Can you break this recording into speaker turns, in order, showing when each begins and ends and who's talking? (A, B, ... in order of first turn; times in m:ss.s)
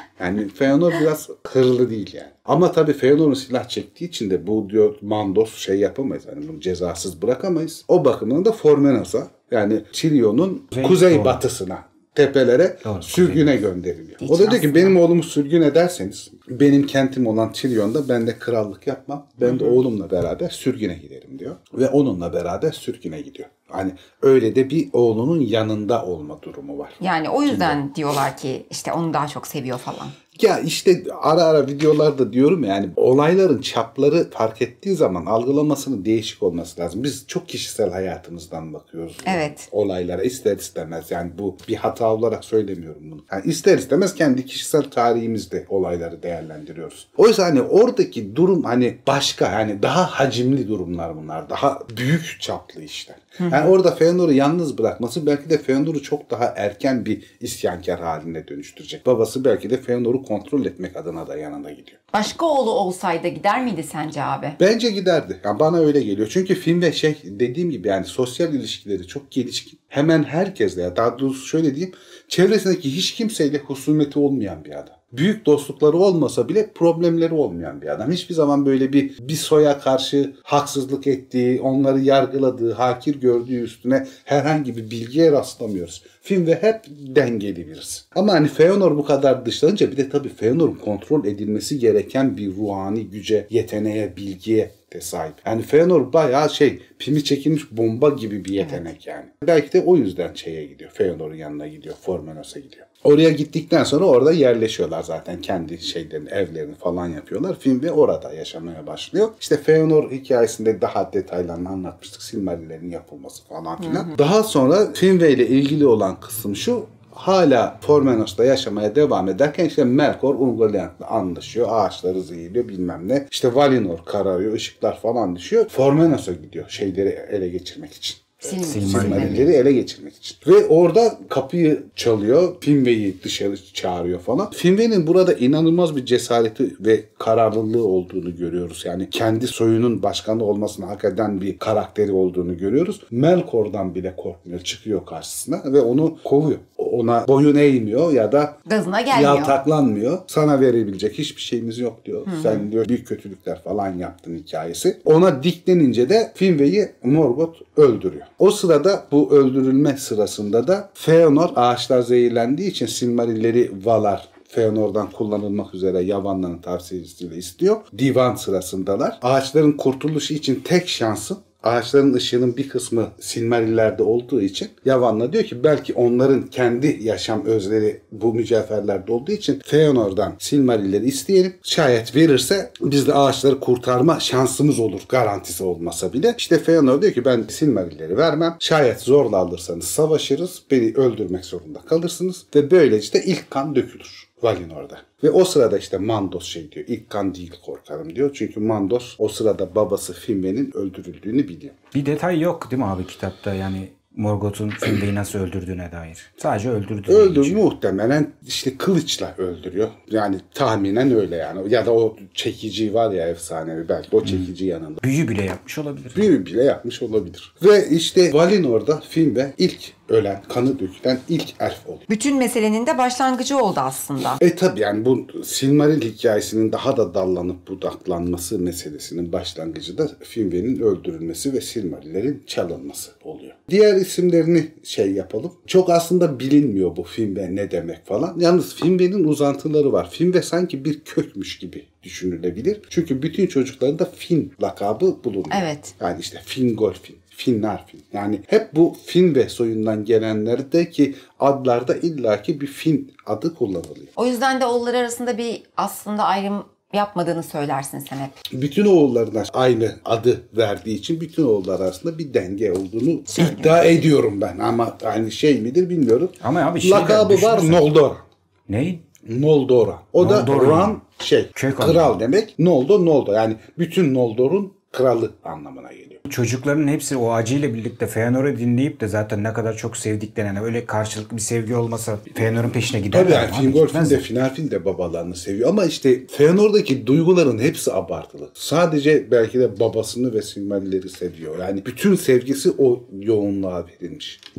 0:00.2-0:27.8 A
0:10.7-0:11.4 B
0:12.8-0:13.5 B
0:14.2-0:15.0 C
0:19.4-0:19.8 C
0:27.0-0:30.1 C
0:30.4-1:02.0 A
0:39.2-0:39.6 C
0:53.4-0:53.7 C
1:02.1-1:04.6 C
1:04.6-2:28.5 A
1:53.8-1:54.1 C
2:08.4-2:09.5 C
2:08.6-2:09.5 B
2:28.6-2:29.6 C
2:29.1-3:21.8 A
2:32.3-2:32.6 C
3:21.9-3:27.6 B
3:27.1-3:35.0 A
3:34.2-3:34.5 B
3:35.0-3:36.2 B
3:36.1-3:42.0 A
3:42.1-3:44.4 C
3:44.4-4:14.1 A
4:05.5-4:05.9 C
4:14.2-4:18.3 C
4:18.5-4:28.2 A
4:23.3-4:23.9 C
4:26.4-4:27.8 B
4:28.7-4:29.0 B
4:29.2-4:36.2 A
4:30.2-4:31.0 B
4:31.5-4:32.2 B
4:36.2-4:44.2 B
4:43.1-4:54.4 A